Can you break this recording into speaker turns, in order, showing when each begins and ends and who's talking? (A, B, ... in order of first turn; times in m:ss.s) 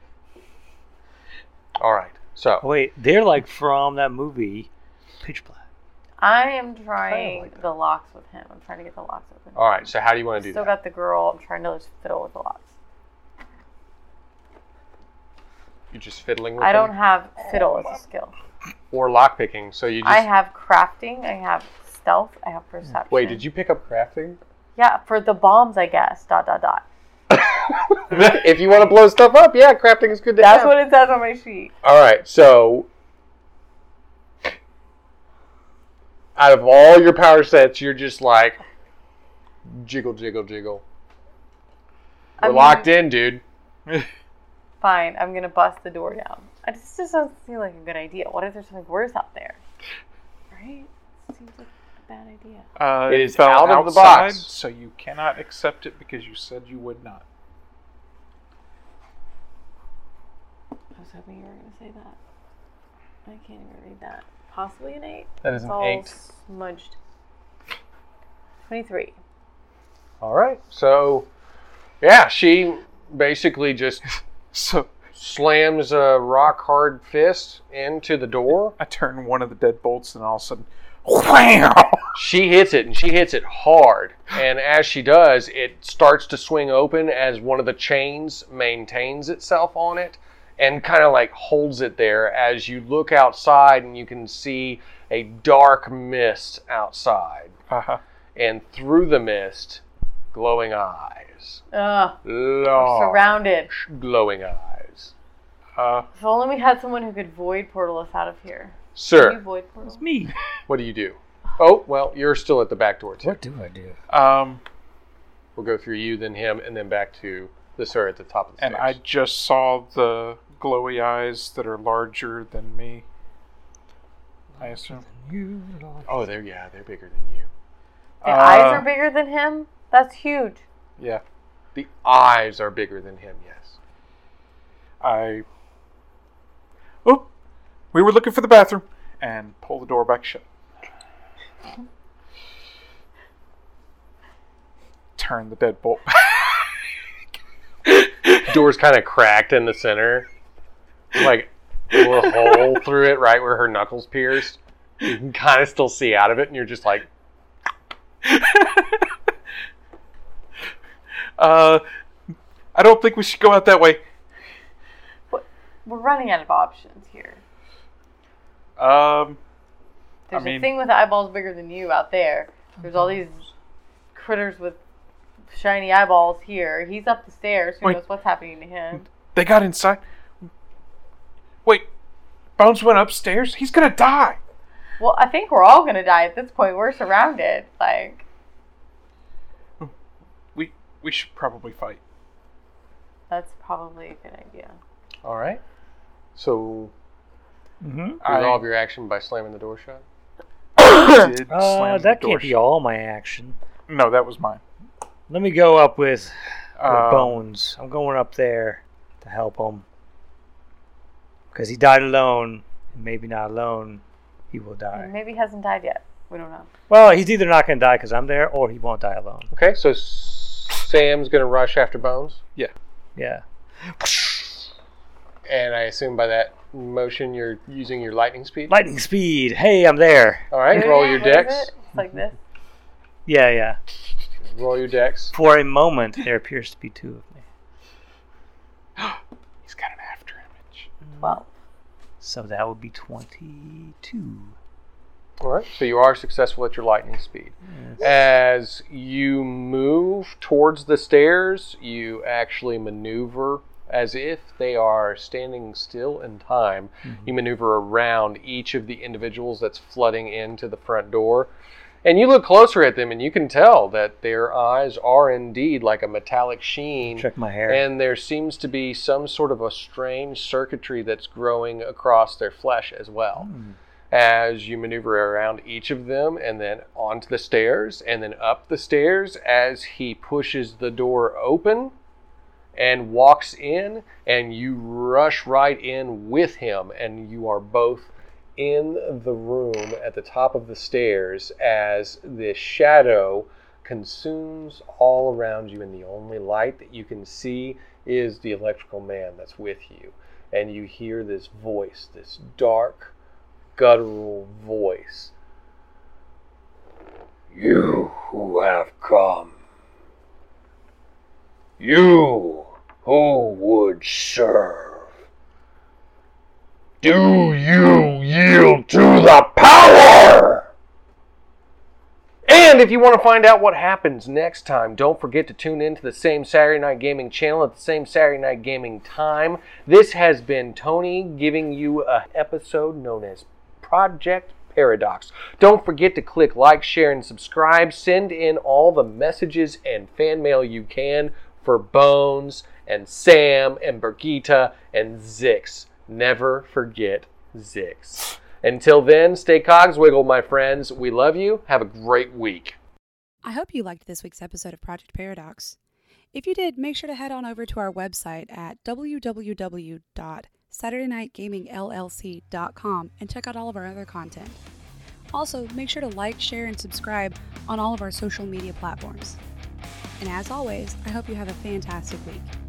0:01.8-0:02.6 A
0:02.6-0:04.7 B
0:05.2-0:05.6 B
0:06.2-0:09.7 C
0:07.1-0:07.6 A
0:09.5-0:10.7 A
0:10.4-0:12.7 C
0:15.9-0:16.9 A
0:16.6-0:18.3 C
0:18.9-0:20.3 A
0:20.0-0:23.4 C
0:23.1-0:24.4 A
0:24.8-0:26.8 C
0:27.3-0:30.7 A
0:30.4-0:31.7 C
0:31.8-0:32.9 A
0:36.4-0:38.6 A
0:39.6-0:40.8 A
0:42.4-0:43.0 C
0:42.4-0:43.4 A
0:44.8-0:49.6 C
0:50.5-0:52.7 C
0:52.8-0:57.2 D
0:53.1-0:54.5 A
1:01.0-1:02.2 C
1:03.2-1:07.0 C
1:05.4-1:06.2 A
1:08.7-1:09.2 C
1:10.2-1:11.3 A
1:12.0-1:14.0 A
1:14.5-1:15.1 D
1:15.1-1:18.8 A
1:18.8-1:22.2 D
1:22.1-1:37.6 A
1:37.7-1:38.0 D
1:38.4-1:41.6 A
1:41.7-1:42.2 C
1:42.2-1:45.1 A
1:42.7-1:43.7 C
1:45.8-1:46.1 D
1:46.1-1:50.0 C
1:48.9-1:49.4 A
1:49.8-1:50.4 B
1:50.7-1:53.4 A
1:53.2-1:54.0 B
1:54.1-1:54.6 D
1:55.6-1:59.0 A
1:58.6-2:03.0 D
2:04.6-2:05.0 D
2:04.6-2:06.2 B
2:06.0-2:07.5 A
2:08.2-2:08.9 D
2:08.2-2:10.6 C
2:11.0-2:11.2 D
2:11.7-2:13.8 A
2:15.0-2:15.4 D
2:17.0-2:17.3 D
2:17.9-2:20.4 D
2:25.2-2:26.7 D
2:28.1-2:28.4 D
2:28.4-2:30.3 A
2:31.1-2:37.1 A
2:38.2-2:39.1 D
2:41.4-2:41.8 D
2:42.7-2:44.0 D
2:45.3-2:47.4 C
2:48.8-2:49.4 D
2:50.3-2:53.5 C
2:50.3-2:50.7 D
2:54.1-2:54.8 C
2:55.5-2:59.1 C
2:58.9-3:00.4 D
3:02.6-3:04.4 D
3:05.0-3:08.2 C
3:10.5-3:12.0 D
3:13.3-3:14.8 C
3:15.2-3:15.6 A
3:16.3-3:16.9 A
3:17.8-3:18.2 B
3:18.2-3:20.0 A
3:18.2-3:18.6 D
3:20.8-3:22.6 D
3:21.5-3:23.6 B
3:23.9-3:24.6 D
3:25.3-3:29.8 B
3:26.8-3:27.4 D
3:31.5-3:35.1 B
3:34.9-3:36.7 C
3:36.9-3:39.5 B
3:39.5-3:42.4 A
3:43.2-3:44.6 B
3:45.4-3:48.7 A
3:48.7-3:50.6 B
3:50.5-3:51.7 A
3:50.7-3:52.4 C
3:53.2-3:53.8 B
3:54.4-3:55.3 A
3:55.3-3:57.4 B
3:59.0-4:00.9 D
4:01.1-4:01.4 B
4:01.2-4:01.5 C
4:02.2-4:04.5 B
4:05.4-4:21.5 A
4:07.7-4:08.0 B
4:22.0-4:33.5 A
4:27.1-4:27.8 B
4:33.4-4:33.8 B
4:34.1-4:41.9 A
4:42.7-5:03.1 A
5:03.8-5:05.3 A
5:07.5-5:09.5 A
5:11.8-5:15.1 A
5:17.0-5:20.7 A
5:22.4-5:52.8 A
5:53.4-5:55.8 E
5:56.3-6:04.6 E
6:05.3-6:09.4 E
6:10.2-6:12.5 E